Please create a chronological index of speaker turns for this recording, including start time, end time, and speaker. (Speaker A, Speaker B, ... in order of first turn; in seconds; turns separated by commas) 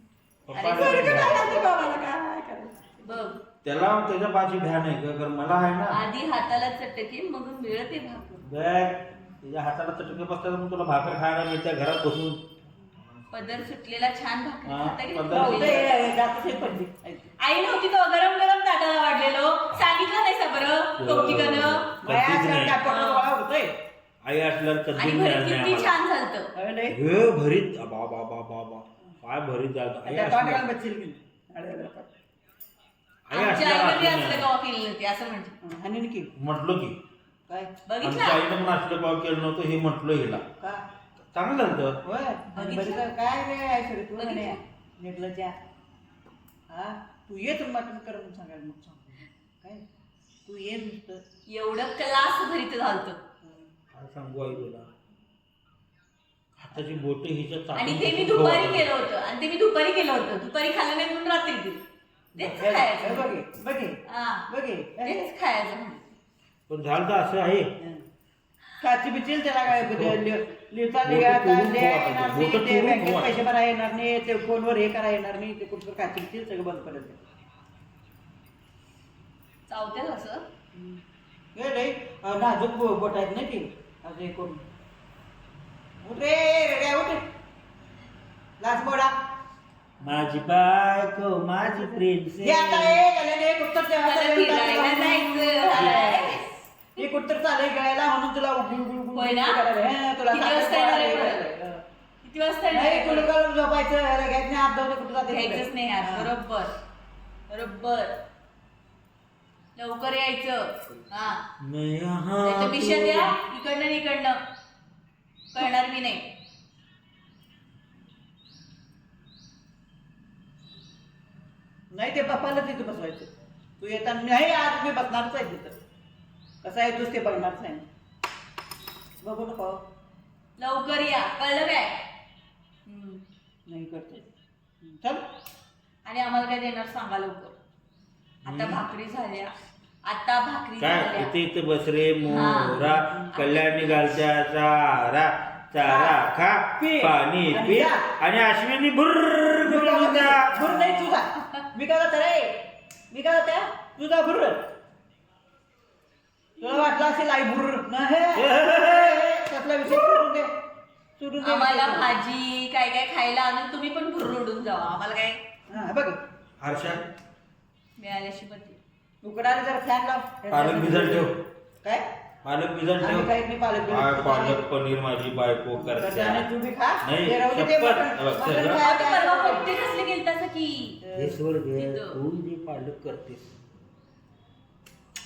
Speaker A: 0.5-1.6, Speaker B: 0.5-1.6, Speaker C: 0.6-3.3, Speaker B: 3.0-3.4, Speaker A: 3.6-6.0, Speaker B: 5.9-8.4, Speaker A: 8.4-12.5, Speaker B: 13.3-16.1, Speaker A: 14.6-15.9, Speaker C: 15.3-17.3, Speaker B: 17.4-21.9, Speaker A: 21.0-22.8, Speaker C: 22.0-23.8, Speaker B: 22.9-23.3, Speaker A: 24.2-25.9, Speaker B: 25.0-26.5, Speaker C: 26.6-27.0, Speaker A: 26.9-30.6, Speaker C: 30.1-32.1, Speaker A: 33.3-34.5, Speaker B: 33.3-35.5, Speaker C: 35.6-36.3, Speaker A: 36.4-37.0, Speaker B: 37.9-38.5, Speaker A: 38.0-40.4, Speaker A: 41.2-42.0, Speaker C: 42.0-45.6, Speaker B: 42.5-43.1, Speaker B: 44.2-44.6, Speaker C: 46.7-49.8, Speaker C: 50.5-51.2, Speaker B: 51.5-53.2, Speaker C: 53.4-53.7, Speaker A: 53.9-54.9, Speaker A: 56.5-58.9, Speaker B: 57.8-61.8, Speaker B: 62.4-63.3, Speaker C: 62.4-65.2, Speaker B: 64.1-64.5, Speaker B: 65.0-66.2, Speaker A: 66.7-67.7, Speaker C: 68.8-77.2, Speaker A: 69.7-70.2, Speaker A: 71.0-73.4, Speaker B: 79.7-80.5, Speaker C: 80.7-81.0, Speaker C: 81.5-84.6, Speaker C: 86.0-87.3, Speaker C: 88.6-89.1, Speaker A: 90.0-93.0, Speaker C: 91.9-96.4, Speaker B: 94.0-97.0, Speaker C: 97.0-101.8, Speaker B: 99.1-99.6, Speaker B: 100.3-101.4, Speaker B: 102.2-103.3, Speaker C: 102.7-106.3, Speaker B: 105.3-106.7, Speaker B: 107.5-108.2, Speaker B: 109.8-111.4, Speaker A: 111.6-113.3, Speaker B: 112.4-114.4, Speaker B: 115.5-116.3, Speaker C: 121.9-125.8, Speaker C: 126.6-127.8, Speaker C: 129.2-129.8, Speaker B: 130.6-132.1, Speaker B: 132.9-133.2, Speaker C: 133.7-134.3, Speaker C: 134.8-135.2, Speaker B: 136.1-137.6, Speaker A: 138.4-138.8, Speaker B: 138.5-139.5, Speaker B: 140.1-141.3, Speaker A: 140.8-151.0, Speaker B: 142.3-144.2, Speaker C: 145.8-146.2, Speaker C: 146.8-148.1, Speaker C: 149.6-154.7, Speaker B: 151.3-151.6, Speaker C: 156.6-160.6, Speaker A: 158.3-159.3, Speaker C: 161.2-162.1, Speaker B: 161.4-165.4, Speaker C: 165.7-166.2, Speaker A: 166.6-167.1, Speaker B: 168.0-168.8, Speaker C: 169.2-172.1, Speaker A: 170.5-171.4, Speaker A: 172.4-173.3, Speaker C: 173.0-174.6, Speaker A: 173.9-176.5, Speaker C: 175.7-179.7, Speaker A: 177.0-178.8, Speaker B: 178.8-181.0, Speaker C: 181.0-181.4, Speaker A: 181.1-183.6, Speaker B: 181.7-182.2